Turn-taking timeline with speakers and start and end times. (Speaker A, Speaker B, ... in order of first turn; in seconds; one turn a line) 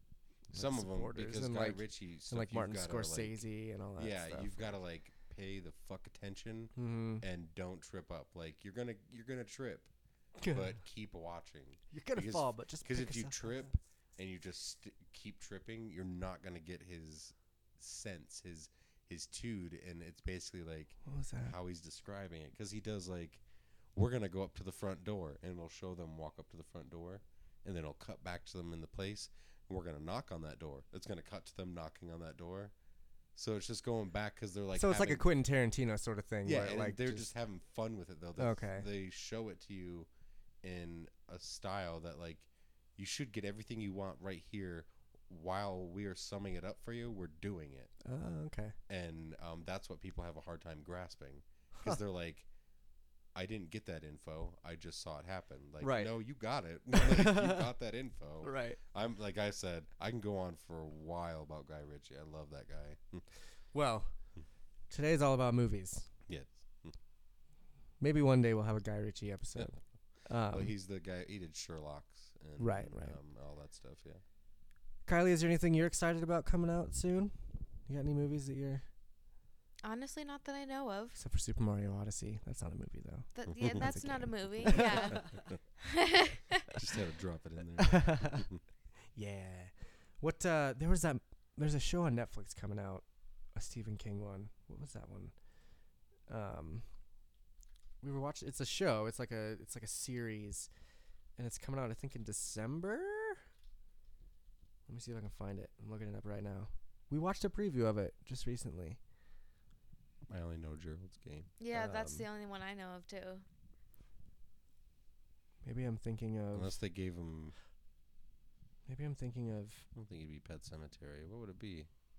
Speaker A: 0.5-4.8
Speaker B: 0.5-3.4
Speaker B: 4.0-9.9
Speaker A: 6.8-7.2
Speaker A: 10.4-10.8
Speaker B: 10.5-23.4
Speaker A: 11.9-13.7
Speaker A: 21.0-21.5
Speaker B: 23.9-32.7
Speaker B: 33.3-35.2
Speaker A: 34.7-37.3
Speaker B: 36.4-40.1
Speaker A: 38.4-38.9
Speaker B: 40.6-47.9
Speaker A: 48.0-48.8
Speaker B: 48.9-52.5
Speaker A: 51.7-52.0
Speaker B: 53.3-63.2
Speaker A: 55.8-56.1
Speaker A: 56.9-57.7
Speaker A: 58.4-58.8
Speaker A: 63.7-64.1
Speaker A: 64.9-66.1
Speaker B: 66.3-67.0
Speaker A: 68.0-70.7
Speaker B: 70.5-74.2
Speaker A: 72.6-73.2
Speaker A: 75.1-77.3
Speaker A: 77.8-78.8
Speaker C: 79.8-81.2
Speaker A: 81.2-85.3
Speaker C: 83.3-86.6
Speaker B: 83.5-83.8
Speaker B: 86.7-88.6
Speaker A: 87.8-88.5
Speaker A: 89.1-93.0
Speaker A: 93.5-95.3
Speaker A: 96.3-96.8
Speaker A: 98.0-100.7
Speaker A: 101.4-103.4
Speaker A: 104.9-109.0
Speaker B: 110.3-112.1
Speaker C: 111.6-113.4
Speaker A: 111.9-112.1
Speaker A: 115.6-116.8
Speaker B: 116.5-117.5
Speaker A: 118.9-119.9
Speaker B: 119.9-121.9